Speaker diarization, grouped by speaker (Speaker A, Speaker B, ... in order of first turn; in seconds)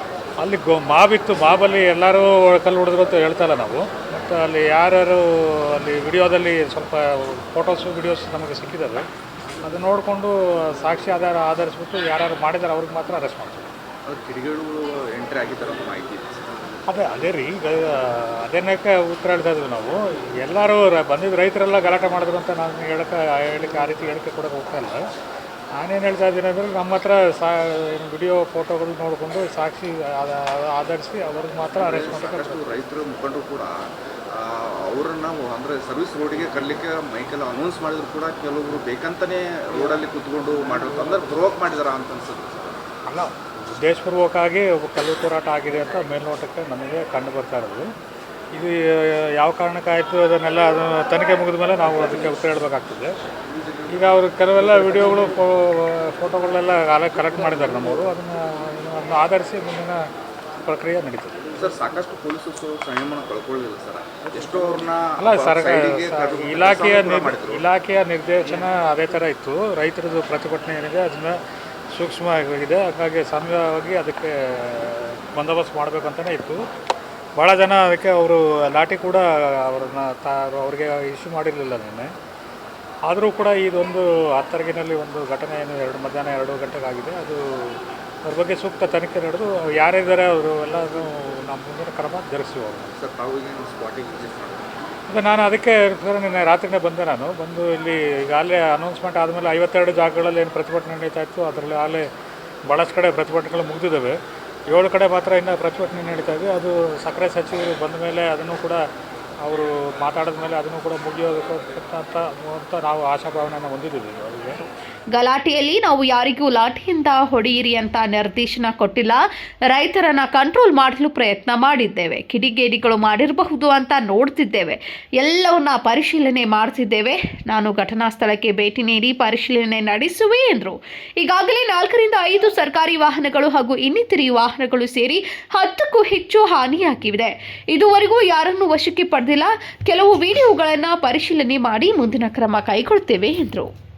Speaker A: 0.4-9.0, 9.6-13.7, 16.9-25.0, 25.8-32.8, 43.1-47.9, 48.5-53.1, 53.9-60.0, 60.6-61.4, 65.2-71.4, 71.9-76.6, 77.4-82.1, 83.1-92.9, 95.1-102.1, 102.7-104.2, 104.7-108.8, 109.4-114.7
Speaker B: 14.1-16.5, 31.8-42.8, 61.5-67.6, 93.0-94.7
Speaker C: 115.1-143.7